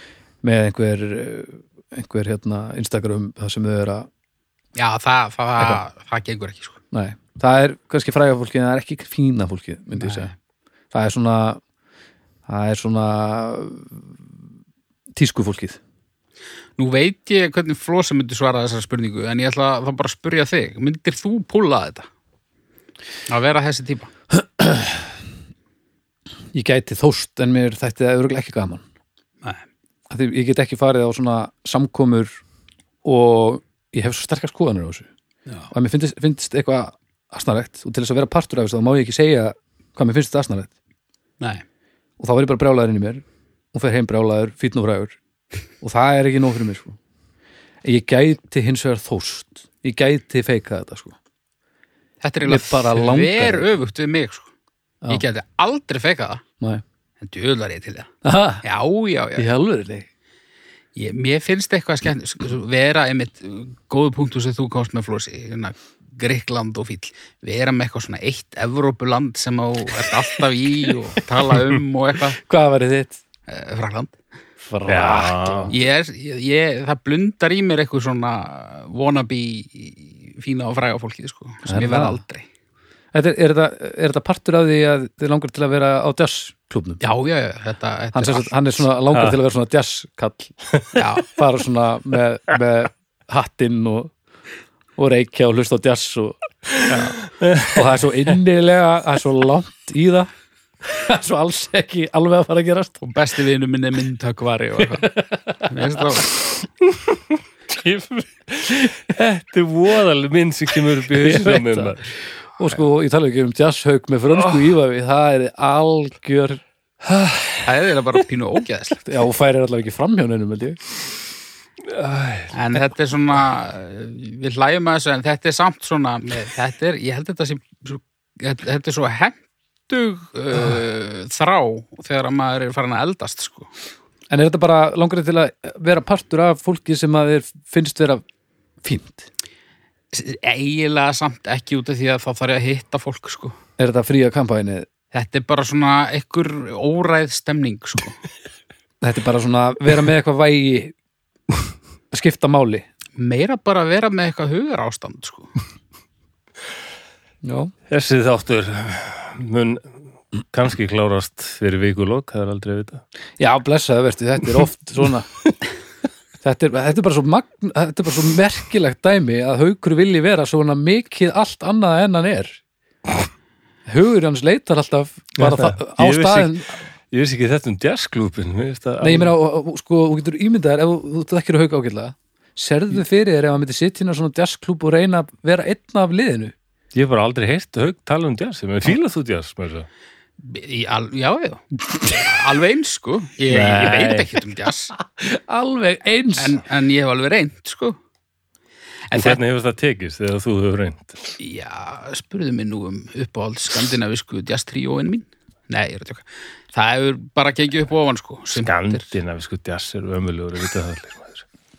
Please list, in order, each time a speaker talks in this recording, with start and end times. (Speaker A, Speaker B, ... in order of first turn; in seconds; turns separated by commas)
Speaker A: 0.4-4.1, Speaker B: 4.8-6.8, Speaker A: 6.9-10.3, Speaker B: 10.0-10.3, Speaker A: 10.9-11.6, Speaker A: 12.5-14.0, Speaker A: 15.2-15.8, Speaker B: 16.8-22.1, Speaker B: 23.3-24.1, Speaker A: 24.3-25.1, Speaker A: 26.5-28.8, Speaker A: 30.1-32.4, Speaker A: 33.0-35.1, Speaker A: 35.7-40.7, Speaker A: 42.2-45.2, Speaker A: 45.8-47.0, Speaker A: 47.8-51.2, Speaker B: 52.2-54.5, Speaker A: 52.5-53.7, Speaker B: 55.1-56.4, Speaker B: 57.2-58.1, Speaker A: 58.2-58.6, Speaker B: 58.6-59.5, Speaker A: 59.4-60.1, Speaker B: 61.0-72.4, Speaker A: 72.4-73.2, Speaker B: 73.5-74.2, Speaker A: 74.6-75.8, Speaker C: 74.9-75.7, Speaker B: 75.7-82.5, Speaker A: 81.7-82.2, Speaker A: 83.1-87.0, Speaker B: 87.0-88.5, Speaker A: 88.1-90.5, Speaker C: 89.1-89.4, Speaker B: 91.0-91.3, Speaker A: 91.2-94.1, Speaker A: 95.0-100.3, Speaker C: 97.4-97.8, Speaker A: 100.8-103.0, Speaker B: 103.0-105.1, Speaker A: 105.0-105.7, Speaker B: 105.7-106.3, Speaker C: 107.7-112.0, Speaker A: 111.2-112.0, Speaker A: 112.6-116.6, Speaker C: 117.0-117.7, Speaker B: 117.6-119.0, Speaker A: 119.0-120.8, Speaker C: 121.9-122.5, Speaker B: 122.5-133.7, Speaker A: 134.3-138.2, Speaker A: 138.8-139.3, Speaker B: 140.1-143.6, Speaker A: 143.8-144.9, Speaker B: 145.1-148.2, Speaker A: 149.0-150.9, Speaker A: 152.1-152.8, Speaker B: 153.2-155.5, Speaker A: 157.4-157.7, Speaker C: 157.9-159.9, Speaker C: 160.4-163.0, Speaker A: 163.4-165.3, Speaker A: 166.4-172.6, Speaker A: 173.9-176.8, Speaker C: 175.4-179.3, Speaker A: 179.0-186.5, Speaker C: 186.9-189.9, Speaker B: 190.4-194.9, Speaker C: 193.5-194.3, Speaker A: 195.2-196.6, Speaker B: 196.4-198.0, Speaker B: 199.1-199.4, Speaker C: 199.1-201.2, Speaker B: 201.4-209.1, Speaker C: 208.5-211.4